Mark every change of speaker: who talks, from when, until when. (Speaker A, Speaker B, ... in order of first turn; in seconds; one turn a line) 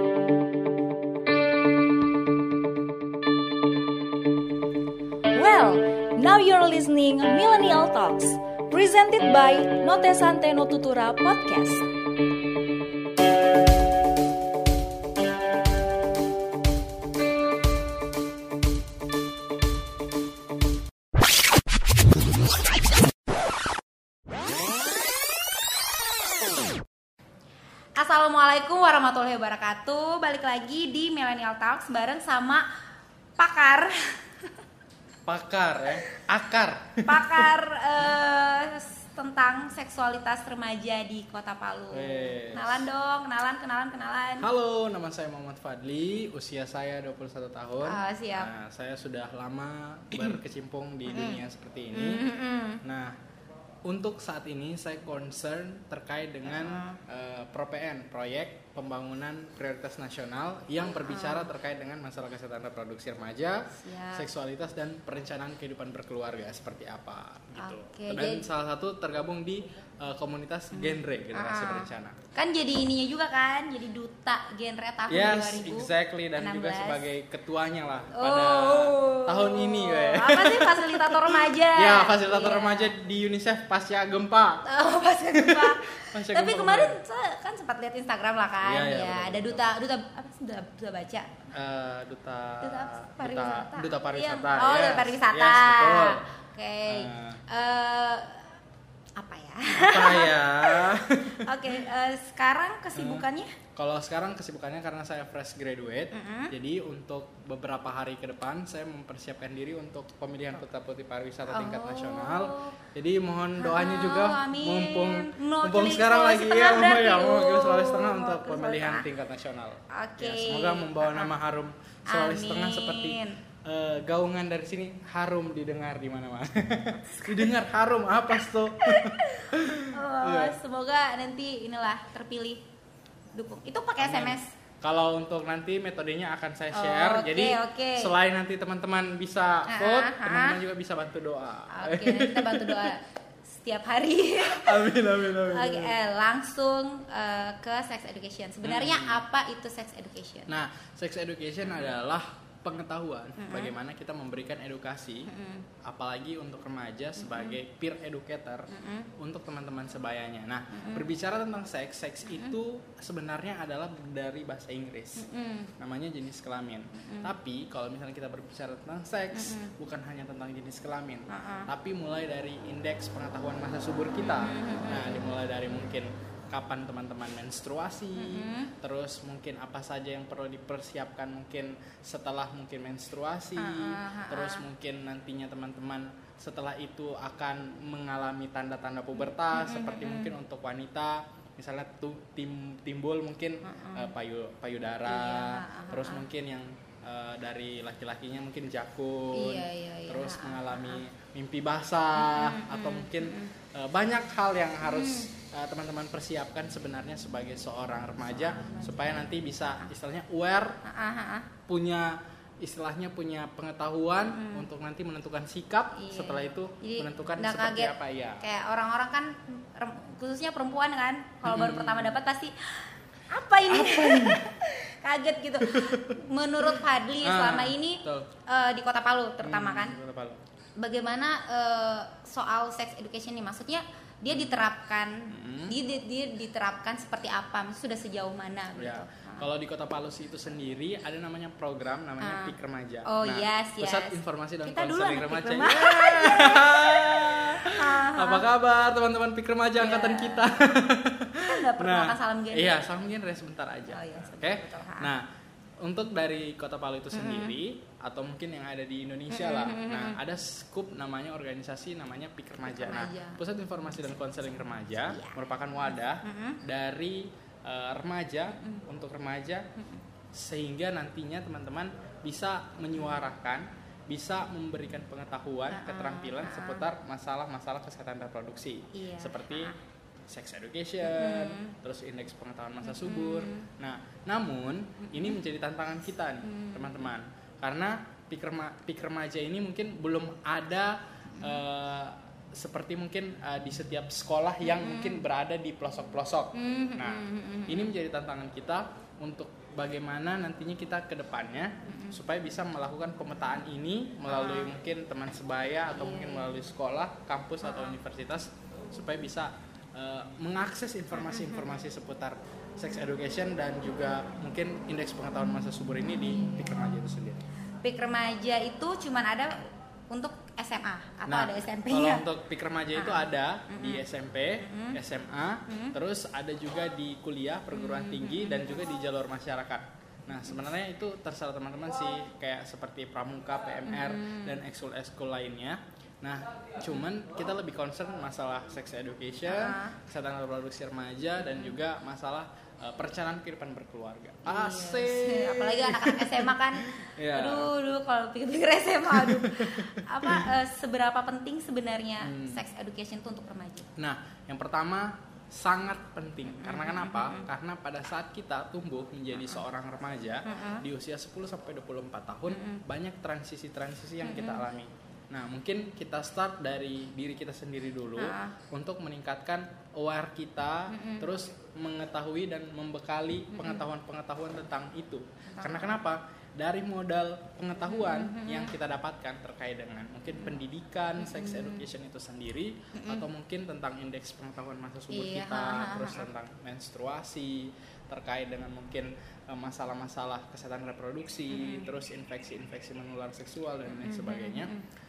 Speaker A: 5.3-11.8
Speaker B: 27.9-32.7
Speaker B: 33.4-34.2
Speaker C: 35.2-37.5
Speaker B: 37.0-44.5
Speaker C: 41.9-42.9
Speaker C: 44.4-52.3
Speaker B: 47.8-48.5
Speaker B: 51.1-52.8
Speaker C: 52.8-53.2
Speaker C: 53.8-72.2
Speaker B: 56.5-57.0
Speaker B: 60.9-61.5
Speaker B: 63.8-64.3
Speaker B: 67.6-68.5
Speaker B: 70.7-77.0
Speaker C: 75.1-84.6
Speaker B: 78.1-82.9
Speaker B: 84.6-91.4
Speaker C: 85.3-87.0
Speaker C: 88.6-89.6
Speaker C: 91.5-96.2
Speaker B: 92.6-98.5
Speaker C: 96.9-97.4
Speaker B: 99.2-103.5
Speaker C: 99.7-101.8
Speaker C: 102.9-130.6
Speaker B: 106.1-106.5
Speaker B: 111.5-112.7
Speaker B: 113.6-119.0
Speaker B: 119.9-121.3
Speaker B: 122.1-123.3
Speaker B: 127.1-127.5
Speaker B: 128.8-132.6
Speaker B: 133.3-134.5
Speaker C: 134.0-143.0
Speaker B: 136.7-138.1
Speaker B: 139.7-140.6
Speaker B: 141.7-150.5
Speaker C: 144.4-146.0
Speaker C: 148.6-149.2
Speaker C: 150.5-155.3
Speaker B: 153.4-153.7
Speaker B: 155.3-155.7
Speaker C: 155.8-165.2
Speaker B: 157.2-157.6
Speaker B: 158.7-159.1
Speaker B: 160.7-161.0
Speaker B: 165.2-165.7
Speaker C: 165.8-210.8
Speaker B: 166.9-167.3
Speaker B: 169.3-169.7
Speaker B: 171.3-171.7
Speaker B: 174.3-175.2
Speaker B: 178.1-178.7
Speaker B: 183.6-184.6
Speaker B: 189.3-190.3
Speaker B: 193.6-194.1
Speaker B: 195.1-196.2
Speaker B: 199.3-201.0
Speaker B: 202.2-203.5
Speaker B: 204.8-205.3
Speaker B: 208.4-209.9
Speaker B: 210.8-211.5
Speaker C: 211.7-218.4
Speaker B: 214.3-214.7
Speaker B: 215.9-230.0
Speaker C: 221.4-222.2
Speaker C: 223.7-224.4
Speaker C: 225.6-226.2
Speaker C: 227.2-228.3
Speaker C: 229.4-230.4
Speaker B: 230.8-239.5
Speaker C: 234.3-234.6
Speaker C: 235.3-235.7
Speaker C: 238.8-255.2
Speaker B: 242.2-242.5
Speaker B: 243.0-248.4
Speaker B: 249.8-250.8
Speaker B: 251.4-252.8
Speaker B: 253.9-255.1
Speaker C: 255.8-269.7
Speaker B: 257.1-257.5
Speaker B: 259.3-260.2
Speaker B: 262.6-263.4
Speaker B: 265.1-265.4
Speaker B: 266.1-266.6
Speaker C: 270.3-279.7
Speaker B: 275.7-276.9
Speaker B: 278.9-279.8
Speaker C: 280.3-317.4
Speaker B: 281.0-281.8
Speaker B: 282.8-283.6
Speaker B: 285.0-285.4
Speaker B: 286.4-287.1
Speaker B: 294.6-295.2
Speaker B: 296.5-297.9
Speaker B: 301.9-302.2
Speaker B: 304.3-304.7
Speaker B: 305.9-306.5
Speaker B: 307.6-307.9
Speaker B: 311.1-311.7
Speaker B: 316.1-316.6
Speaker B: 317.8-322.2
Speaker C: 321.3-347.7
Speaker B: 322.9-324.0
Speaker B: 324.6-325.0
Speaker B: 325.7-325.9
Speaker B: 327.7-328.7
Speaker B: 333.9-334.6
Speaker B: 339.4-340.0
Speaker B: 344.4-353.9
Speaker C: 349.1-350.5
Speaker C: 352.2-352.6
Speaker C: 354.0-394.7
Speaker B: 356.5-357.5
Speaker B: 360.4-360.8
Speaker B: 362.5-362.8
Speaker B: 364.2-364.6
Speaker B: 368.2-368.6
Speaker B: 370.9-371.3
Speaker B: 373.6-373.8
Speaker B: 375.5-376.0
Speaker B: 377.9-378.7
Speaker B: 381.2-381.8
Speaker B: 382.9-383.2
Speaker B: 385.1-386.2
Speaker B: 391.5-391.9
Speaker B: 393.9-394.9